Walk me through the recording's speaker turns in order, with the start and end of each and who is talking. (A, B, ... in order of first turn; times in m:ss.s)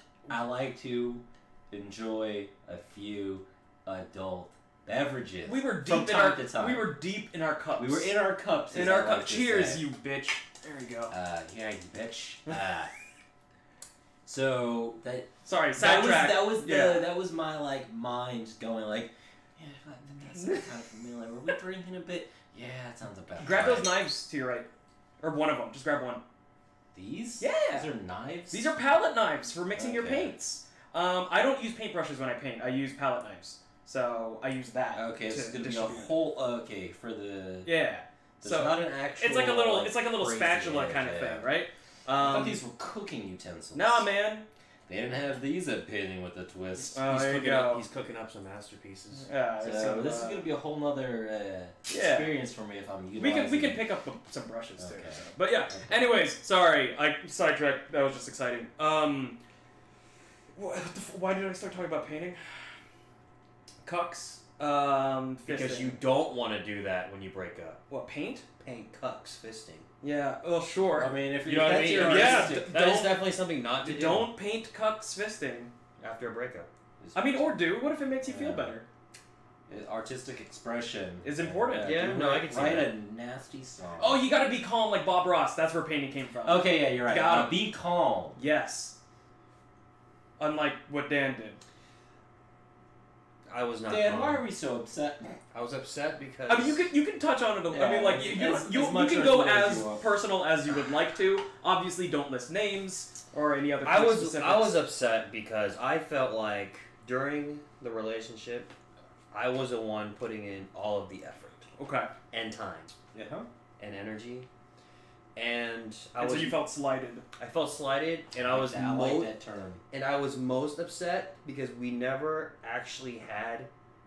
0:00.3-0:07.0 A
0:05.4-0:08.2 B
0:07.8-0:09.9 A
0:08.7-0:11.1 B
0:11.1-0:12.9 A
0:14.3-0:24.0 A
0:15.4-0:17.1 B
0:20.4-0:20.7 B
0:23.4-0:24.7 B
0:25.2-0:26.2 B
0:26.9-0:28.7 A
0:27.4-0:27.9 B
0:28.5-0:36.2 B
0:29.8-0:30.3 A
0:34.9-0:37.8 A
0:37.6-0:42.6 B
0:38.4-0:41.5 A
0:42.2-0:44.1 A
0:43.7-0:44.5 B
0:44.9-0:47.0 A
0:46.9-0:49.3 C
0:46.9-0:47.8 B
0:49.2-0:50.5 B
0:49.6-0:53.8 A
0:51.9-0:52.4 B
0:53.2-0:59.4 B
0:54.8-0:55.9 A
1:00.6-1:02.4 B
1:03.8-1:06.0 B
1:05.5-1:07.8 C
1:07.9-1:08.5 B
1:08.6-1:09.9 C
1:10.0-1:13.2 B
1:10.9-1:12.7 A
1:11.4-1:14.3 C
1:13.8-1:15.7 B
1:16.0-1:16.7 C
1:17.0-1:17.5 A
1:17.1-1:18.8 B
1:18.2-1:18.8 A
1:19.7-1:24.3 A
1:21.2-1:22.1 B
1:21.8-1:23.0 C
1:24.0-1:27.6 B
1:26.4-1:28.4 A
1:28.4-1:29.0 B
1:30.4-1:31.6 B
1:33.5-1:34.4 C
1:33.9-1:35.4 A
1:35.5-1:36.9 C
1:36.5-1:44.8 B
1:37.7-1:40.1 A
1:43.8-1:48.7 C
1:49.3-1:51.7 C
1:51.8-1:52.1 B
1:52.3-1:52.9 C
1:53.1-1:53.5 A
1:53.8-1:54.5 C
1:55.4-1:56.6 C
1:56.2-1:57.2 B
1:57.4-1:59.3 C
1:58.4-1:59.8 A
1:59.9-2:03.7 C